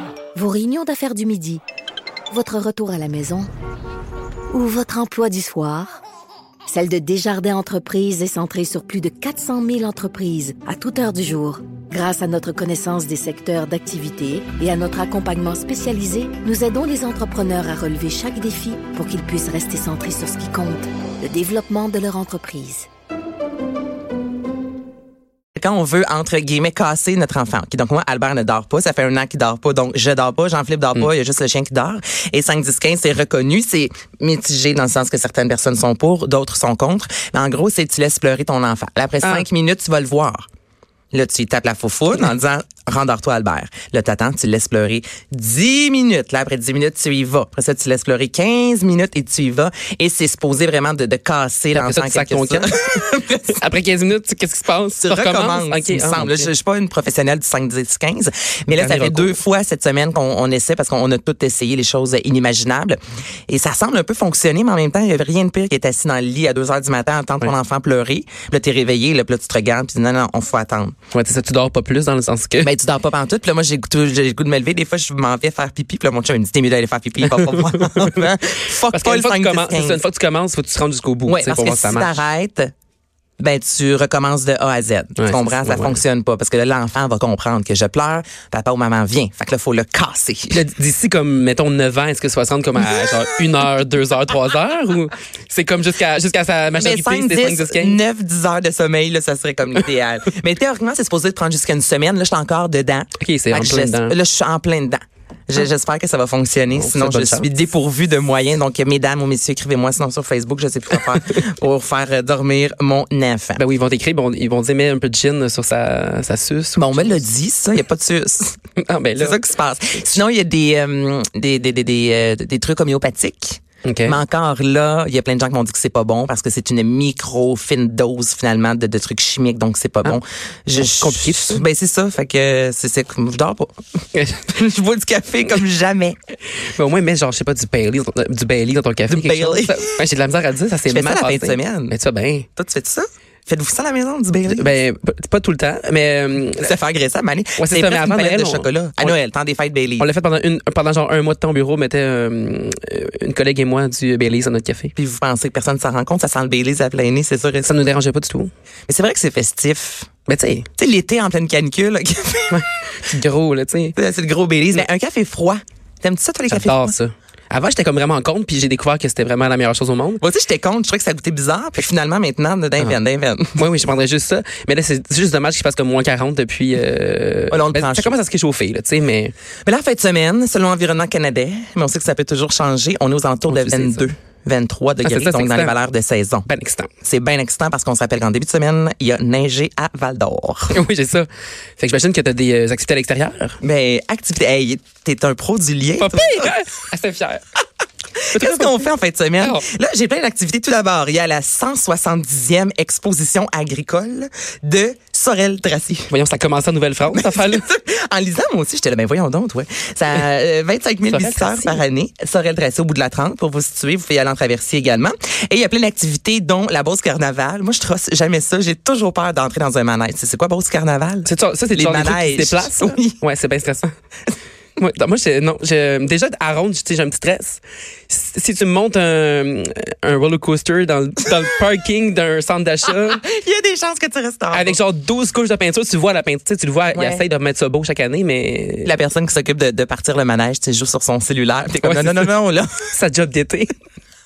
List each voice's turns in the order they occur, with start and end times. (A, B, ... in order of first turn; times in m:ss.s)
0:00.4-0:01.6 A
0:02.3-0:03.5 A
0:04.5-0:06.0 A
0:06.7-0:22.9 A
0:25.6-0:40.5 B
0:41.1-0:53.6 B
0:51.8-0:52.8 C
0:53.5-0:56.5 C
0:55.0-1:03.0 B
0:58.8-0:59.4 C
1:03.5-1:11.0 B
1:11.1-1:12.7 C
1:12.6-1:20.0 B
1:17.3-1:18.4 C
1:18.9-1:22.2 C
1:21.3-1:22.7 B
1:23.4-1:30.6 B
1:25.2-1:26.0 C
1:30.5-1:38.0 C
1:36.8-1:53.6 B
1:43.2-1:44.2 C
1:46.7-1:47.5 C
1:53.6-1:57.2 C
1:56.8-1:58.6 B
1:58.8-1:59.4 C
1:59.2-2:13.7 B
2:03.8-2:04.2 C
2:10.8-2:11.6 C
2:14.2-2:14.4 C
2:14.5-2:16.2 B
2:16.7-2:22.5 C
2:19.1-2:20.0 B
2:20.9-2:22.0 B
2:22.6-2:24.7 B
2:24.5-2:26.7 C
2:26.6-2:30.1 B
2:27.6-2:29.2 C
2:30.0-2:34.9 C
2:35.0-2:37.8 B
2:37.6-2:38.5 C
2:38.9-2:40.1 B
2:40.3-2:40.7 C
2:40.8-2:42.6 B
2:42.5-2:44.0 C
2:44.0-2:46.9 B
2:46.5-2:50.2 C
2:50.2-2:53.6 B
2:53.6-2:59.3 C
2:57.5-2:58.1 B
2:59.6-3:06.5 B
3:03.5-3:04.1 C
3:05.0-3:05.7 C
3:06.5-3:06.9 C
3:07.0-3:10.8 B
3:10.7-3:11.3 C
3:11.8-3:13.6 C
3:13.6-3:16.5 B
3:16.0-3:17.4 C
3:18.2-3:26.1 B
3:18.3-3:18.9 C
3:19.4-3:19.6 C
3:26.1-3:27.6 C
3:27.1-3:43.2 B
3:31.1-3:31.8 C
3:41.2-3:43.9 C
3:44.8-3:53.2 C
3:52.9-3:54.8 B
3:54.5-3:58.9 C
3:56.9-3:57.2 B
3:58.8-4:02.8 B
4:01.8-4:02.3 C
4:02.9-4:03.7 C